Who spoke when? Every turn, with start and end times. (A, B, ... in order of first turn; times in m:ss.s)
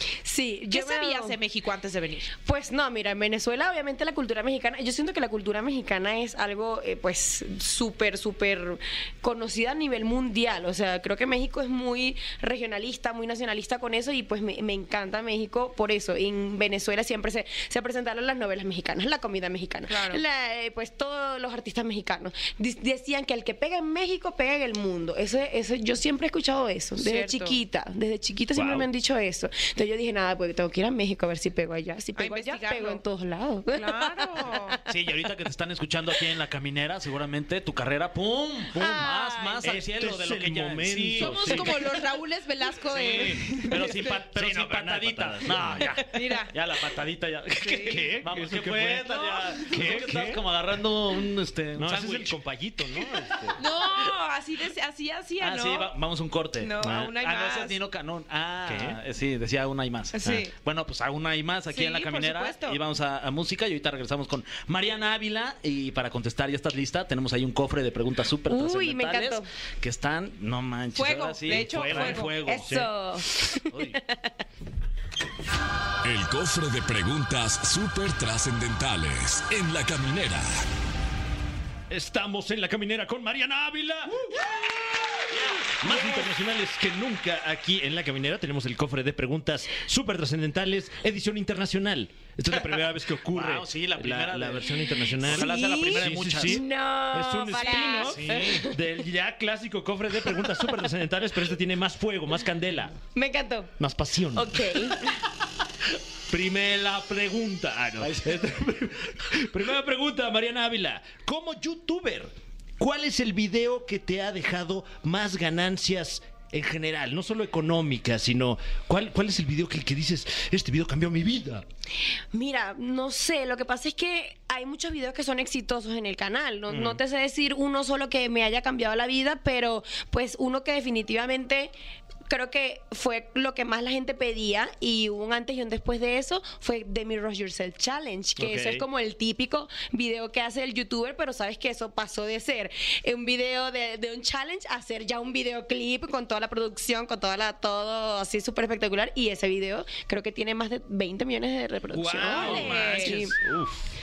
0:00.2-0:01.4 A
0:00.7-0:02.3 B
0:02.4-0:34.8 A
0:19.9-0:20.2 B
0:27.0-0:27.6 B
0:28.5-0:28.9 C
0:32.2-0:33.0 B
0:33.7-0:34.8 B
0:34.9-0:41.8 D
0:38.7-0:41.8 C
0:38.8-0:39.6 A
0:41.2-0:43.8 B
0:42.9-0:52.4 D
0:44.3-0:46.0 C
0:46.1-0:46.5 B
0:47.6-0:48.0 B
0:47.9-0:50.4 C
0:49.1-0:50.0 B
0:51.8-0:53.6 C
0:53.0-0:53.5 D
0:53.6-0:55.9 B
0:55.4-1:12.8 D
0:56.6-0:57.8 B
0:56.8-0:57.1 C
0:58.7-0:59.0 C
1:00.1-1:00.5 B
1:01.7-1:02.8 B
1:08.5-1:09.5 A
1:11.0-1:12.3 B
1:11.7-1:12.9 C
1:12.4-1:14.3 A
1:13.7-1:14.0 D
1:16.0-1:20.6 E
1:21.9-1:43.0 C
1:32.5-1:36.6 D
1:35.4-1:38.8 A
1:37.5-1:38.0 B
1:38.0-1:38.7 D
1:43.2-1:43.7 A
1:43.8-1:44.9 C
1:44.3-1:45.1 A
1:46.3-2:01.6 C
1:48.0-1:48.5 D
2:02.3-2:11.7 A
2:06.7-2:07.0 C
2:12.3-2:33.4 A
2:18.4-2:18.9 C
2:31.9-2:33.9 C
2:32.2-2:33.3 D
2:32.2-2:33.2 B